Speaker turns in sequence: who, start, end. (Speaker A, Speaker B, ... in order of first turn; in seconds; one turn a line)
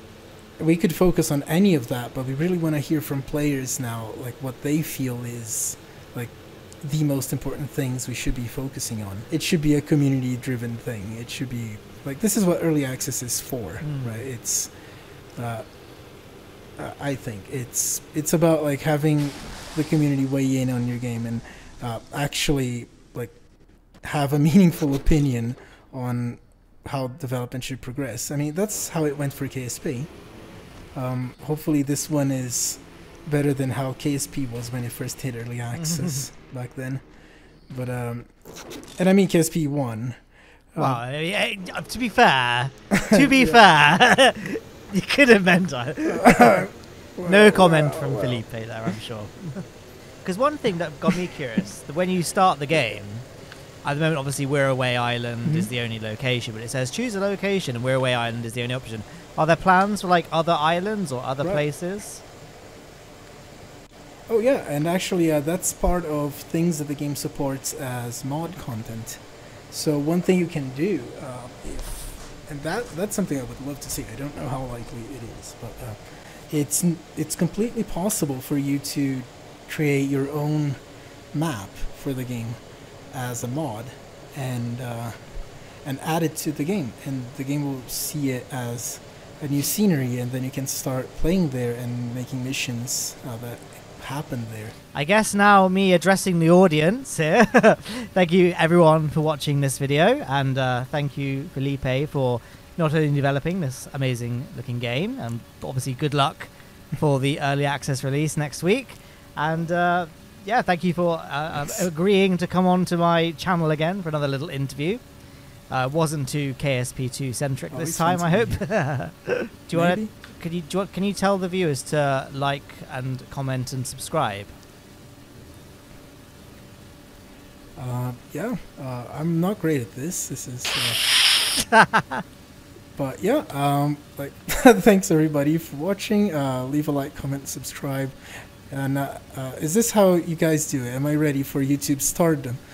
Speaker A: 0.6-14.7
Speaker B: 13.8-14.2
Speaker A: 15.3-15.6
Speaker A: 16.8-23.4
Speaker A: 24.0-30.1
Speaker A: 30.9-37.0
Speaker B: 35.7-36.2
Speaker A: 37.7-38.3
Speaker A: 39.0-40.2
Speaker A: 40.7-41.0
Speaker B: 40.8-46.7
Speaker A: 42.9-43.6
Speaker A: 46.0-48.4
Speaker B: 47.2-49.6
Speaker B: 50.2-53.2
Speaker B: 53.8-62.2
Speaker A: 55.4-55.7
Speaker A: 64.3-80.8
Speaker A: 81.3-82.6
Speaker A: 83.1-85.2
Speaker A: 85.8-94.7
Speaker B: 94.9-115.0
Speaker B: 115.7-124.5
Speaker A: 117.7-118.6
Speaker A: 119.7-120.1
Speaker A: 127.8-131.0
Speaker B: 131.5-132.2
Speaker A: 132.9-142.6